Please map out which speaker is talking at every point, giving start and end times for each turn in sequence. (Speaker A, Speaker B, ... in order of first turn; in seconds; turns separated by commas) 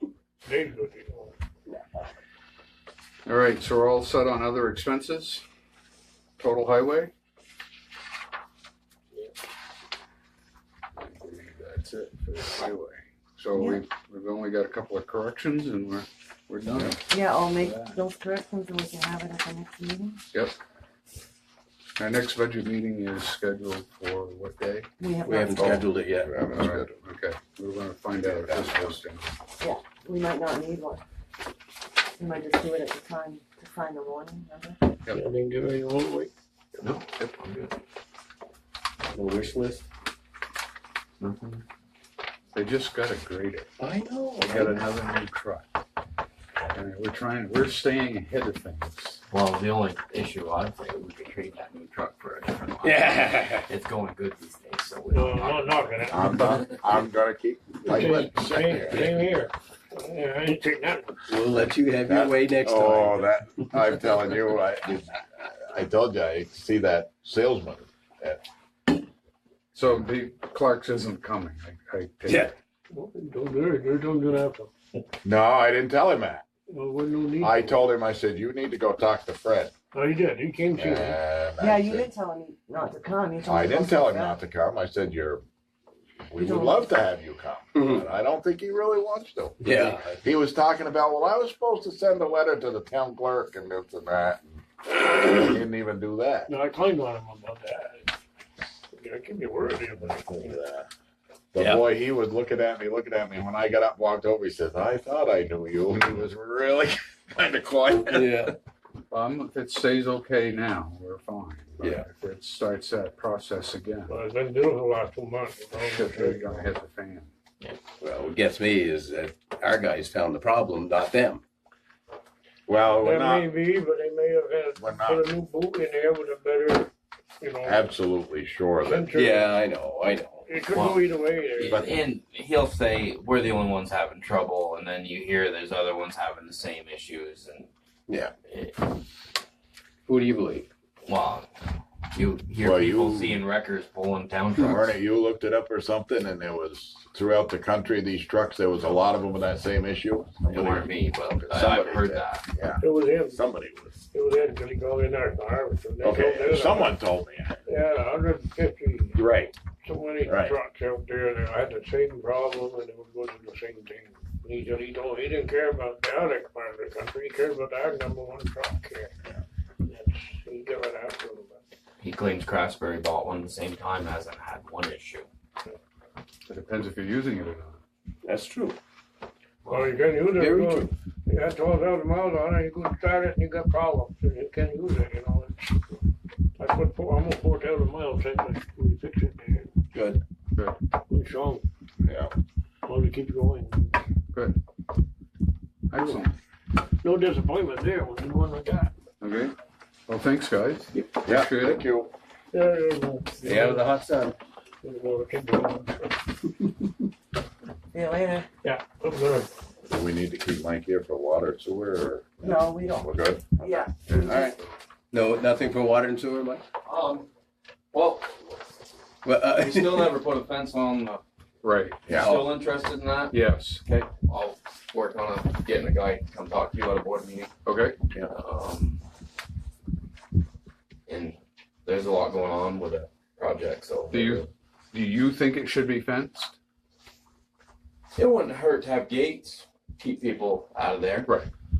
Speaker A: 0.4-1.3, Speaker B: 3.2-5.5, Speaker B: 6.4-7.1, Speaker B: 10.9-17.0, Speaker C: 13.5-13.8, Speaker D: 16.6-17.0, Speaker C: 17.1-20.2, Speaker B: 20.3-20.6, Speaker B: 22.0-24.9, Speaker C: 25.0-25.8, Speaker D: 25.2-26.4, Speaker B: 25.6-25.8, Speaker E: 26.2-26.9, Speaker B: 26.5-29.3, Speaker E: 28.2-29.0, Speaker C: 29.6-31.0, Speaker C: 32.1-34.8, Speaker A: 35.1-36.3, Speaker F: 36.8-37.8, Speaker D: 39.1-39.8, Speaker F: 41.2-41.6, Speaker B: 42.5-43.7, Speaker D: 43.8-44.8, Speaker B: 44.4-45.7, Speaker B: 46.7-49.2, Speaker F: 49.3-55.8, Speaker D: 52.8-53.7, Speaker A: 55.1-56.8, Speaker E: 56.1-59.1, Speaker D: 57.8-59.1, Speaker A: 57.9-61.4, Speaker D: 61.3-63.3, Speaker E: 62.0-68.4, Speaker B: 69.7-72.5, Speaker D: 72.3-72.5, Speaker A: 72.9-74.7, Speaker E: 75.2-76.4, Speaker A: 76.7-77.8, Speaker E: 77.4-79.7, Speaker A: 79.9-81.2, Speaker E: 80.7-82.1, Speaker C: 81.6-84.3, Speaker E: 83.4-85.4, Speaker E: 86.3-96.5, Speaker C: 86.4-86.9, Speaker D: 87.8-88.0, Speaker D: 89.6-90.0, Speaker A: 96.5-98.1, Speaker A: 98.9-100.4, Speaker E: 100.2-100.9, Speaker E: 101.5-108.5, Speaker F: 101.6-101.8, Speaker D: 108.0-108.5, Speaker B: 109.1-114.2, Speaker D: 111.8-112.0, Speaker A: 114.1-116.7, Speaker B: 115.7-117.3, Speaker D: 118.0-121.4, Speaker E: 122.7-123.5, Speaker A: 122.9-127.9, Speaker E: 124.8-125.2, Speaker E: 127.6-129.1, Speaker A: 128.8-129.5, Speaker D: 129.1-130.4, Speaker A: 130.4-131.8, Speaker F: 130.7-131.0, Speaker F: 131.6-137.7, Speaker E: 131.7-132.0, Speaker F: 138.4-138.9, Speaker D: 140.1-140.7, Speaker F: 141.0-141.5, Speaker F: 142.1-145.0, Speaker E: 142.6-143.4, Speaker E: 144.6-150.9, Speaker F: 150.5-152.4, Speaker E: 151.4-153.9, Speaker A: 152.8-153.4, Speaker A: 154.1-156.9, Speaker E: 156.0-157.6, Speaker A: 157.7-159.2, Speaker E: 159.1-159.5, Speaker A: 159.8-169.1, Speaker E: 160.2-160.5, Speaker A: 169.8-171.6, Speaker F: 172.0-175.3, Speaker B: 176.4-177.8, Speaker D: 178.2-178.8, Speaker A: 179.7-186.0, Speaker D: 179.7-180.9, Speaker A: 186.6-189.7, Speaker D: 189.9-190.2, Speaker A: 191.1-191.6, Speaker E: 192.0-192.3, Speaker A: 192.8-194.0, Speaker B: 195.9-196.3, Speaker A: 195.9-196.2, Speaker A: 197.0-198.9, Speaker B: 199.2-199.5, Speaker B: 200.1-201.8, Speaker E: 201.2-202.1, Speaker A: 202.5-203.9, Speaker D: 203.4-204.3, Speaker A: 204.8-206.2, Speaker C: 207.9-208.5, Speaker A: 208.6-209.5, Speaker E: 209.8-214.6, Speaker C: 212.4-214.5, Speaker D: 215.1-216.6, Speaker F: 216.8-217.3, Speaker F: 217.9-218.6, Speaker D: 219.2-220.2, Speaker F: 219.4-221.2, Speaker B: 221.6-222.1, Speaker E: 222.1-222.3, Speaker F: 222.1-227.5, Speaker D: 222.1-222.5, Speaker B: 223.3-223.8, Speaker B: 227.6-227.9, Speaker F: 228.3-229.0, Speaker F: 231.1-234.5, Speaker B: 234.1-236.6, Speaker F: 238.1-241.3, Speaker B: 241.2-241.5